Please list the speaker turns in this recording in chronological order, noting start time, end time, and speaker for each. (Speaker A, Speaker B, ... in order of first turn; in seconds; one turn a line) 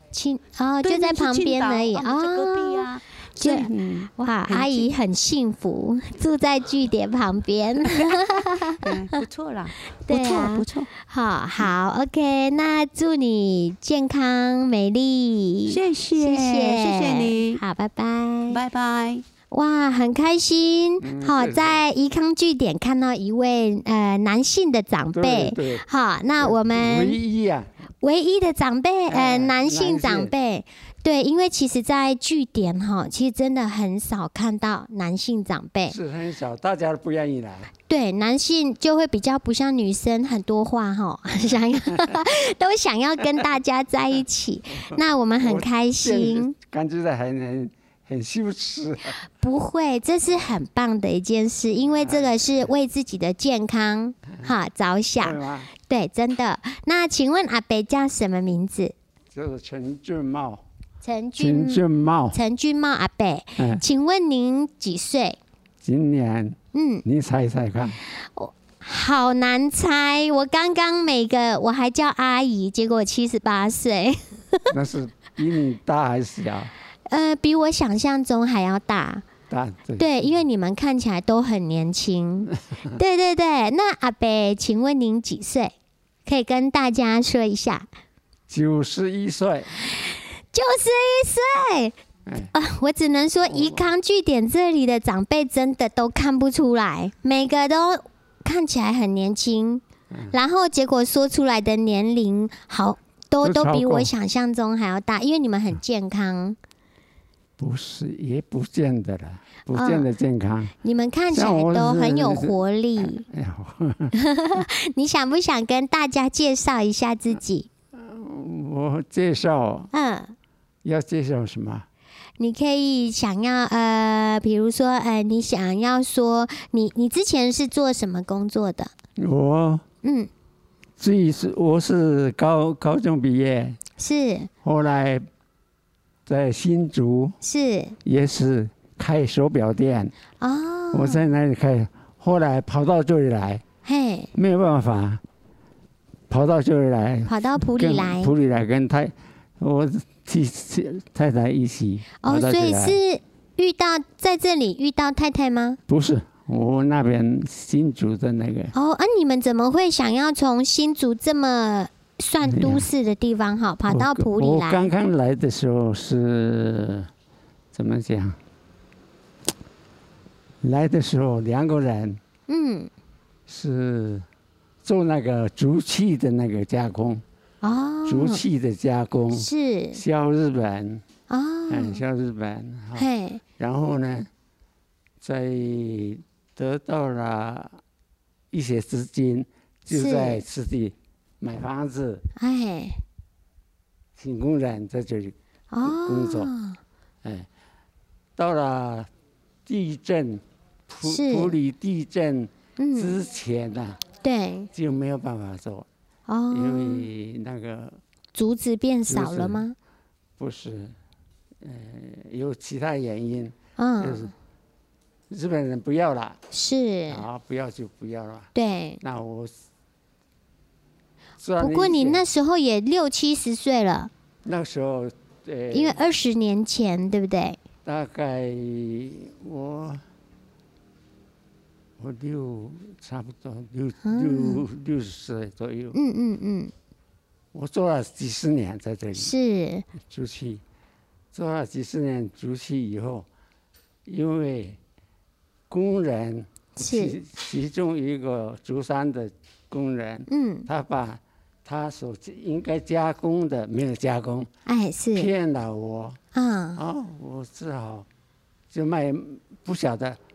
Speaker A: 0.1-2.9
Speaker B: 0.8-4.9
Speaker A: 3.4-8.8
Speaker B: 7.8-10.9
Speaker A: 9.9-18.6
Speaker B: 15.7-17.6
Speaker B: 18.5-19.2
Speaker A: 19.5-27.2
Speaker C: 21.0-21.8
Speaker C: 25.1-25.8
Speaker C: 26.4-27.7
Speaker A: 28.0-36.0
Speaker C: 29.1-30.3
Speaker C: 35.9-37.7
Speaker A: 37.9-46.5
Speaker C: 45.4-49.2
Speaker A: 49.4-58.9
Speaker C: 52.0-52.6
Speaker C: 55.2-55.7
Speaker C: 59.3-60.6
Speaker A: 61.0-65.4
Speaker C: 61.4-62.4
Speaker C: 63.6-63.8
Speaker C: 65.8-68.0
Speaker A: 66.7-67.0
Speaker A: 68.2-74.7
Speaker C: 74.7-76.7
Speaker A: 77.1-79.2
Speaker C: 79.5-80.1
Speaker A: 80.0-85.7
Speaker A: 86.2-87.8
Speaker C: 88.5-89.7
Speaker A: 90.0-91.9
Speaker C: 92.3-92.5
Speaker A: 92.5-106.6
Speaker C: 93.5-93.8
Speaker C: 103.4-104.1
Speaker C: 107.6-110.7
Speaker A: 109.7-110.1
Speaker A: 110.8-113.2
Speaker C: 111.3-114.1
Speaker A: 114.1-117.7
Speaker C: 118.0-119.9
Speaker A: 119.9-120.3
Speaker C: 120.8-121.8
Speaker A: 122.4-128.9
Speaker C: 129.2-129.8
Speaker A: 130.0-130.3
Speaker C: 131.0-133.8
Speaker A: 134.0-134.5
Speaker C: 134.6-135.2
Speaker C: 136.2-137.4
Speaker A: 137.4-137.9
Speaker C: 138.0-140.1
Speaker A: 140.4-141.2
Speaker C: 140.9-143.6
Speaker A: 143.8-144.3
Speaker C: 144.3-145.2
Speaker C: 146.3-153.0
Speaker A: 147.2-148.3
Speaker A: 152.2-155.8
Speaker C: 155.9-158.7
Speaker A: 158.7-164.9
Speaker C: 162.4-162.8
Speaker C: 163.9-167.1
Speaker C: 167.7-168.4
Speaker C: 170.6-172.2
Speaker A: 172.5-172.9
Speaker C: 173.5-174.2
Speaker C: 174.8-177.2
Speaker A: 177.6-178.4
Speaker C: 178.0-181.0
Speaker A: 179.3-180.0
Speaker A: 181.3-182.0
Speaker C: 181.7-183.1
Speaker A: 182.9-183.4
Speaker C: 183.6-184.3
Speaker C: 185.2-187.8
Speaker C: 188.5-192.2
Speaker A: 189.9-190.4
Speaker A: 192.4-193.0
Speaker C: 194.2-196.5
Speaker A: 195.7-196.8
Speaker C: 198.4-199.1
Speaker C: 199.7-204.0
Speaker A: 201.0-201.6
Speaker A: 202.8-203.2
Speaker A: 204.2-204.7
Speaker C: 204.7-205.8
Speaker A: 206.3-207.1
Speaker C: 206.5-208.0
Speaker A: 208.3-209.7
Speaker C: 209.1-209.6
Speaker C: 210.4-210.9
Speaker C: 211.6-214.3
Speaker A: 213.8-214.3
Speaker C: 215.3-216.4
Speaker A: 216.5-217.2
Speaker C: 217.1-218.5
Speaker A: 218.5-219.0
Speaker C: 219.0-219.5
Speaker C: 221.4-222.2
Speaker A: 221.6-224.1
Speaker C: 224.4-226.0
Speaker A: 225.7-227.6
Speaker C: 227.8-230.0
Speaker C: 232.0-235.9
Speaker A: 234.0-234.6
Speaker A: 235.9-236.7
Speaker C: 237.5-239.3
Speaker A: 239.1-239.9
Speaker C: 240.0-240.6
Speaker C: 241.3-243.2
Speaker C: 244.1-244.8
Speaker C: 245.7-254.5
Speaker A: 246.8-247.2
Speaker A: 250.3-250.7
Speaker A: 254.7-255.3
Speaker C: 255.1-256.2
Speaker A: 256.3-256.8
Speaker C: 256.8-258.1
Speaker C: 258.7-260.2